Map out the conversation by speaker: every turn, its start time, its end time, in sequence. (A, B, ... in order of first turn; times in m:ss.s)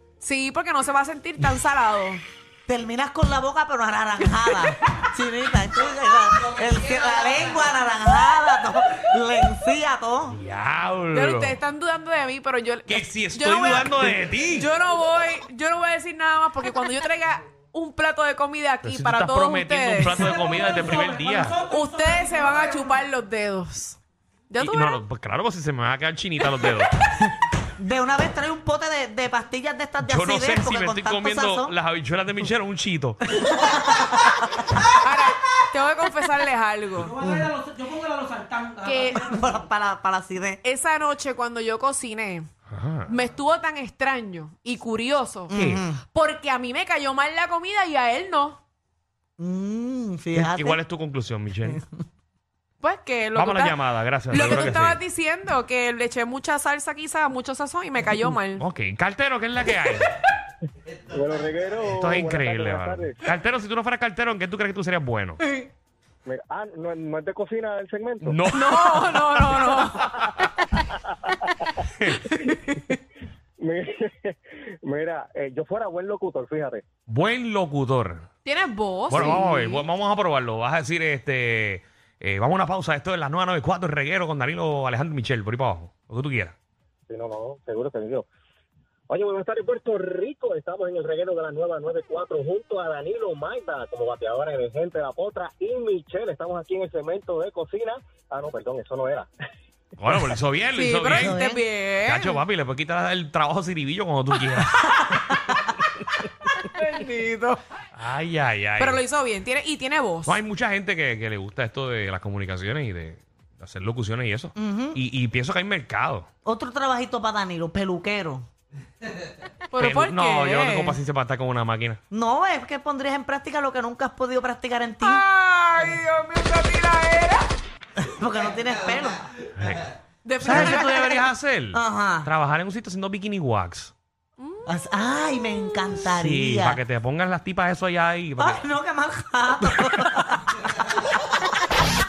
0:00.2-0:02.2 A
0:02.7-0:10.4 B
0:10.3-0:11.6 C
0:11.1-0:20.3 A
0:12.9-0:14.7 C
0:18.8-0:21.6 C
0:21.0-0:21.6 D
0:21.6-0:24.0 A
0:24.5-0:25.0 A
0:24.6-0:26.9 C
0:27.1-0:31.7 B
0:30.0-0:33.2 C
0:33.3-0:34.8 B
0:34.8-0:37.1 A
0:37.2-0:37.5 B
0:37.2-0:38.8 D
0:38.8-0:39.3 A
0:39.1-0:40.6 B
0:40.6-0:42.5 A
0:42.7-0:43.1 C
0:43.1-0:48.6 A
0:45.5-0:46.0 B
0:45.5-0:45.8 C
0:49.4-0:50.8 B
0:50.3-0:51.8 C
0:52.8-0:58.6 A
0:53.3-0:55.0 C
0:58.6-1:00.1 C
1:01.1-1:03.2 E
1:02.0-1:05.4 C
1:06.2-1:08.4 E
1:08.2-1:09.6 C
1:08.5-1:10.4 A
1:12.0-1:12.3 C
1:12.1-1:13.0 A
1:13.6-1:16.8 E
1:17.1-1:18.2 C
1:18.4-1:19.8 A
1:19.1-1:26.5 C
1:27.1-1:28.2 E
1:29.1-1:39.3 E
1:40.0-1:41.4 C
1:40.7-1:42.4 A
1:41.1-1:41.6 B
1:42.0-1:45.0 C
1:45.0-1:45.5 B
1:46.6-1:47.6 A
1:48.0-1:49.0 C
1:48.8-1:50.4 A
1:50.3-1:56.2 C
1:54.5-1:55.0 B
1:56.4-1:58.4 B
1:59.7-2:01.0 A
1:59.8-2:02.0 C
2:02.1-2:05.2 B
2:05.0-2:07.4 A
2:08.0-2:09.2 B
2:09.6-2:09.8 C
2:10.2-2:11.3 A
2:10.4-2:13.9 C
2:10.5-2:10.9 B
2:11.7-2:12.3 B
2:14.4-2:14.6 A
2:14.6-2:16.8 B
2:16.0-2:18.6 C
2:18.4-2:20.6 B